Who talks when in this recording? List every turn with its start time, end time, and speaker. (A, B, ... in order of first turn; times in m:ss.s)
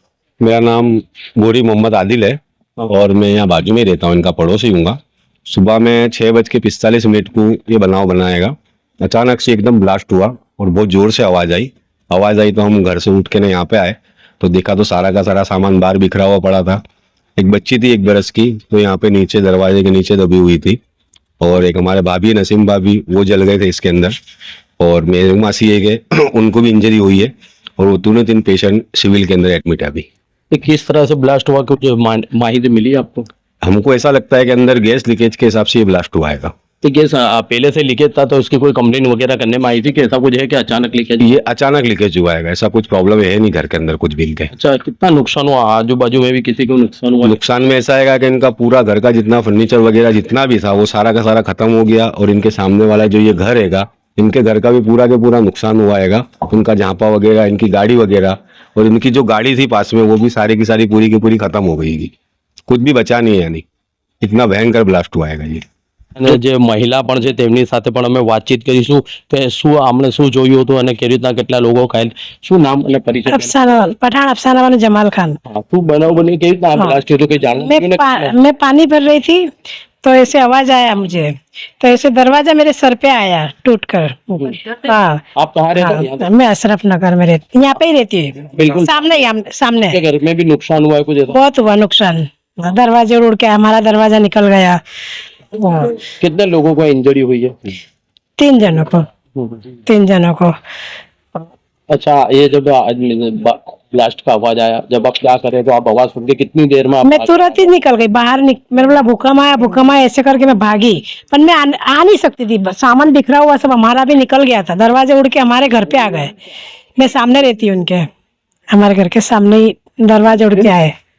0:00.4-0:16.8 A
0:17.4-0:20.8 A
0:21.4-0:24.1 A
0:24.8-0:30.1 A
0:30.5-0:33.3 B
0:33.6-0:36.5 A
0:36.8-0:41.3 B
0:41.2-0:44.5 A
0:44.5-0:47.4 B
0:47.2-1:02.1 A
1:02.7-1:03.6 A
1:04.2-1:05.6 A
1:06.2-1:13.6 B
1:13.3-1:15.4 C
1:15.4-1:18.3 B
1:17.6-1:19.4 C
1:20.0-1:25.2 C
1:25.3-1:26.3 B
1:25.8-1:30.0 C
1:28.5-1:28.9 B
1:29.9-1:31.4 B
1:31.3-1:34.8 C
1:35.5-1:35.9 C
1:36.2-1:37.6 B
1:38.4-1:39.0 C
1:39.8-1:40.5 C
1:41.9-1:47.6 B
1:47.0-1:56.3 C
1:57.0-1:58.1 C
1:58.7-2:00.9 C